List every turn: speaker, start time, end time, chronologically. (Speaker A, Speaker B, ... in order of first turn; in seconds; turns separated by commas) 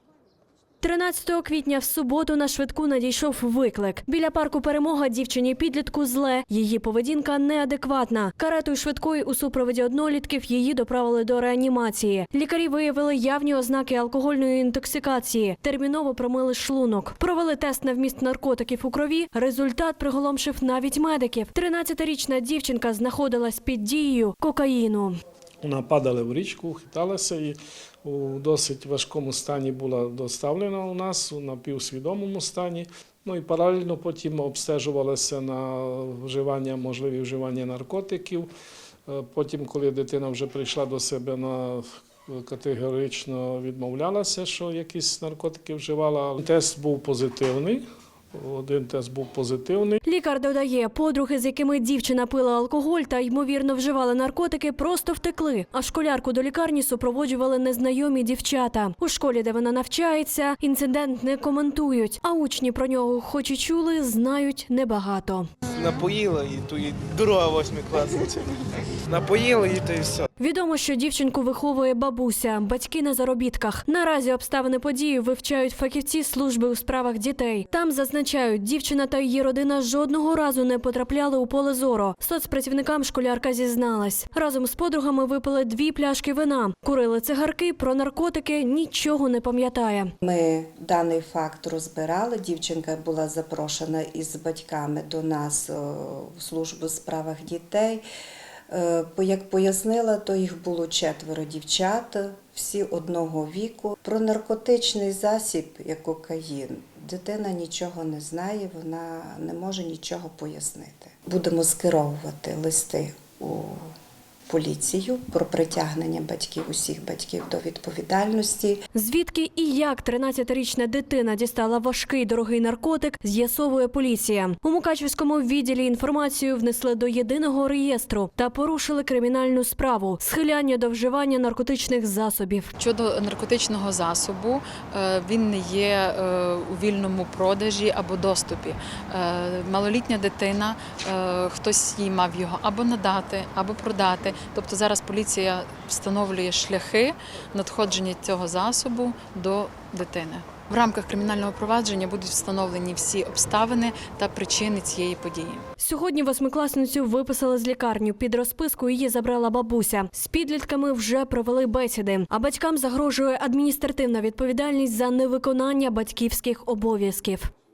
Speaker A: 0.8-25.2, Speaker B: 25.6-38.5, Speaker B: 39.1-50.0, Speaker A: 50.0-65.5, Speaker C: 65.7-68.5, Speaker C: 69.0-70.2, Speaker A: 70.4-90.1, Speaker D: 90.2-98.0, Speaker D: 98.7-113.9, Speaker D: 114.5-118.8, Speaker A: 118.9-132.7, Speaker E: 132.8-155.7, Speaker A: 155.8-167.5